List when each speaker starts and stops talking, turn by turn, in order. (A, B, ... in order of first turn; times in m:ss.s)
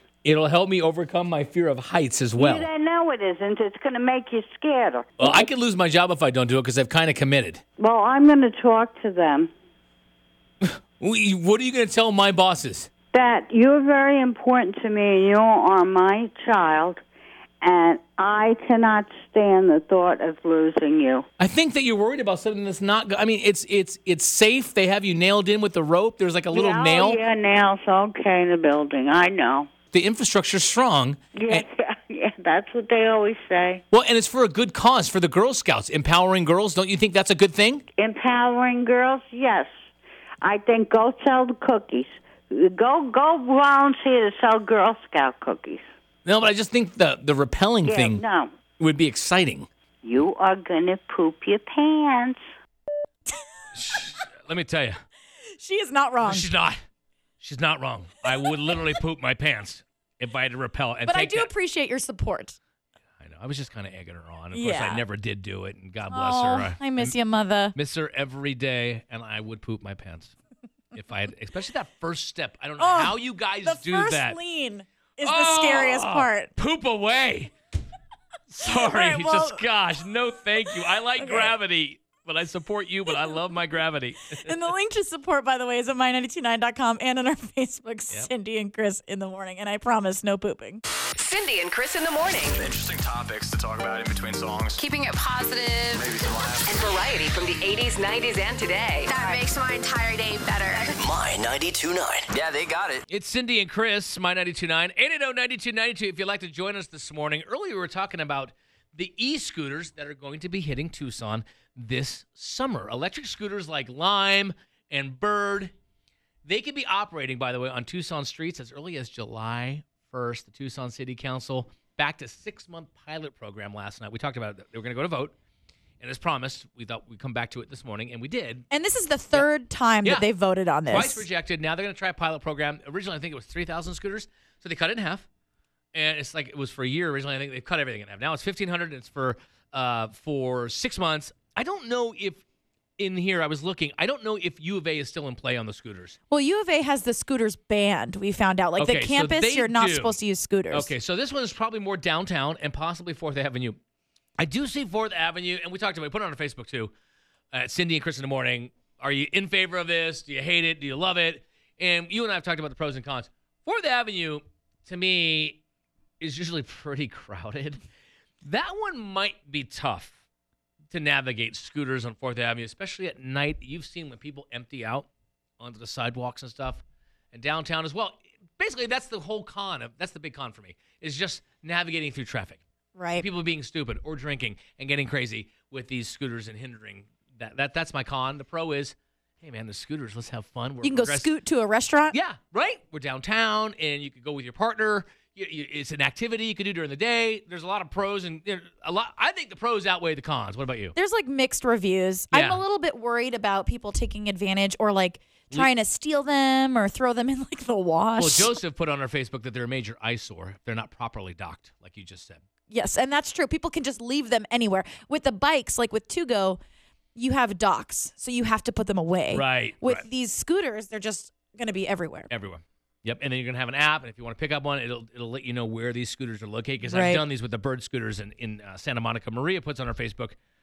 0:00.2-0:02.7 A
0:02.4-0:05.4 B
0:05.2-0:07.6 A
0:07.8-0:09.5 B
0:10.6-0:12.9 A
0:13.1-0:17.0 B
0:17.6-0:21.3 B
0:21.4-0:27.2 A
0:26.5-0:29.7 B
0:29.9-0:31.7 A
0:31.4-0:33.8 B
0:33.9-0:37.8 A
0:38.0-0:39.7 B
0:40.4-0:45.8 B
0:46.3-0:48.2 A
0:47.8-0:48.5 B
0:48.8-0:49.7 A
0:50.0-0:52.4 B
0:53.8-0:55.0 A
0:55.6-0:56.5 C
0:56.2-0:56.8 A
0:57.4-1:01.5 A
1:01.1-1:02.6 C
1:03.2-1:07.2 A
1:04.5-1:05.0 C
1:06.1-1:07.8 C
1:07.8-1:10.4 A
1:10.9-1:14.4 A
1:12.8-1:16.5 C
1:15.2-1:17.5 A
1:18.5-1:24.7 A
1:18.7-1:19.6 C
1:21.2-1:21.5 C
1:24.4-1:30.8 C
1:31.2-1:32.7 D
1:32.6-1:34.8 E
1:34.8-1:36.1 D
1:35.9-1:36.7 E
1:36.6-1:41.0 D
1:40.9-1:43.0 F
1:43.1-1:55.7 A
1:56.4-2:05.3 A
2:06.0-2:08.7 A
2:08.7-2:11.2 C
2:10.9-2:15.3 A
2:15.9-2:22.4 A
2:23.0-2:26.2 A
2:26.3-2:30.9 C
2:28.8-2:30.2 A
2:30.7-2:33.8 A
2:34.4-2:36.9 A
2:37.5-2:45.6 A
2:46.2-2:47.8 A
2:48.4-2:50.2 A
2:50.9-2:55.1 A
2:55.6-2:56.8 A
2:57.3-3:02.6 A
3:03.0-3:03.3 C
3:03.2-3:11.3 A
3:10.8-3:12.2 C
3:12.1-3:21.0 A
3:21.0-3:28.5 C
3:22.3-3:22.6 A
3:28.2-3:32.4 A
3:32.7-3:36.6 C
3:37.2-3:42.3 C
3:39.3-3:40.0 A
3:42.3-3:50.4 A
3:46.9-3:47.2 C